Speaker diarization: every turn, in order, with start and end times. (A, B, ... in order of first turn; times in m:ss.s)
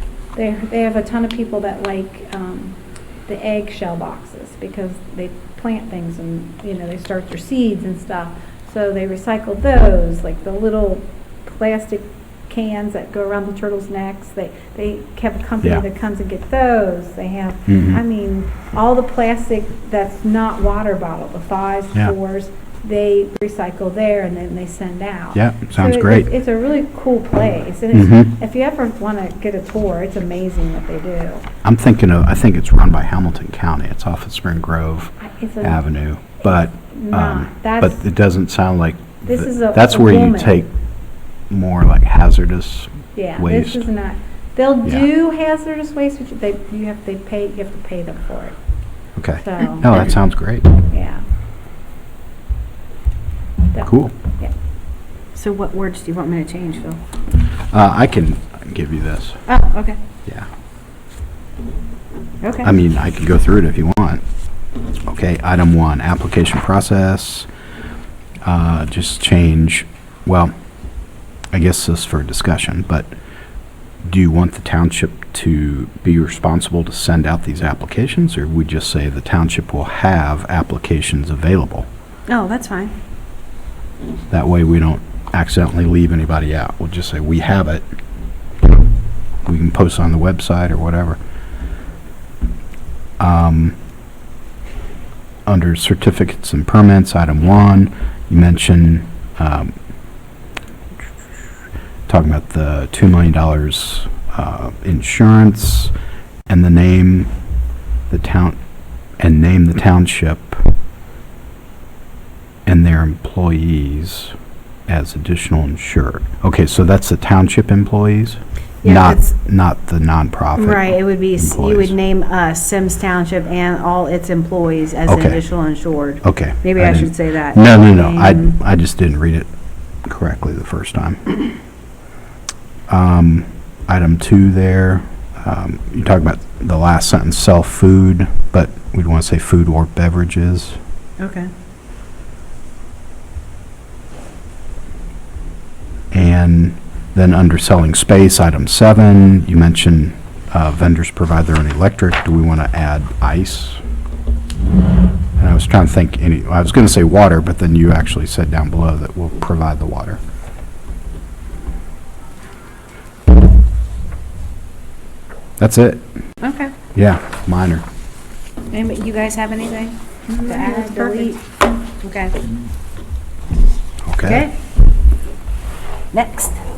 0:00.3-0:31.4 A
0:17.7-0:18.0 B
0:25.3-0:26.3 B
0:27.9-0:28.3 B
0:31.6-0:40.7 B
0:35.2-0:35.8 A
0:36.5-0:38.0 A
0:39.2-0:40.6 A
0:41.5-0:43.8 B
0:43.1-0:48.6 A
0:49.2-0:50.7 B
0:49.4-0:49.9 A
0:50.9-0:51.2 A
0:53.7-0:54.5 A
0:53.8-0:54.1 B
0:55.3-0:57.0 C
0:57.7-0:59.4 B
0:59.5-1:00.0 C
1:02.4-1:02.7 C
1:02.6-1:04.2 B
1:05.0-1:07.5 B
1:08.4-1:10.5 B
1:11.5-1:13.1 B
1:14.0-1:21.9 B
1:22.3-1:22.9 C
1:24.3-1:27.8 B
1:29.4-1:31.2 B
1:33.2-1:33.8 B
1:35.5-1:39.7 B
1:42.1-1:45.9 B
1:46.5-1:47.3 B
1:48.1-1:48.6 B
1:49.2-1:50.7 B
1:52.6-1:54.3 B
1:54.9-2:01.9 B
1:58.8-1:59.2 C
2:00.6-2:08.6 C
2:05.0-2:05.4 B
2:06.2-2:09.5 B
2:10.0-2:11.4 B
2:12.9-2:20.8 B
2:21.2-2:21.5 C
2:26.1-2:33.8 B
2:35.4-2:40.2 B
2:45.6-2:46.1 B
2:46.4-2:46.7 C
2:46.9-2:47.8 B
2:48.7-2:51.4 C
2:50.3-2:51.4 A
2:52.0-2:52.4 C
2:54.0-2:54.5 B
2:54.2-2:54.5 C
2:56.1-2:56.6 C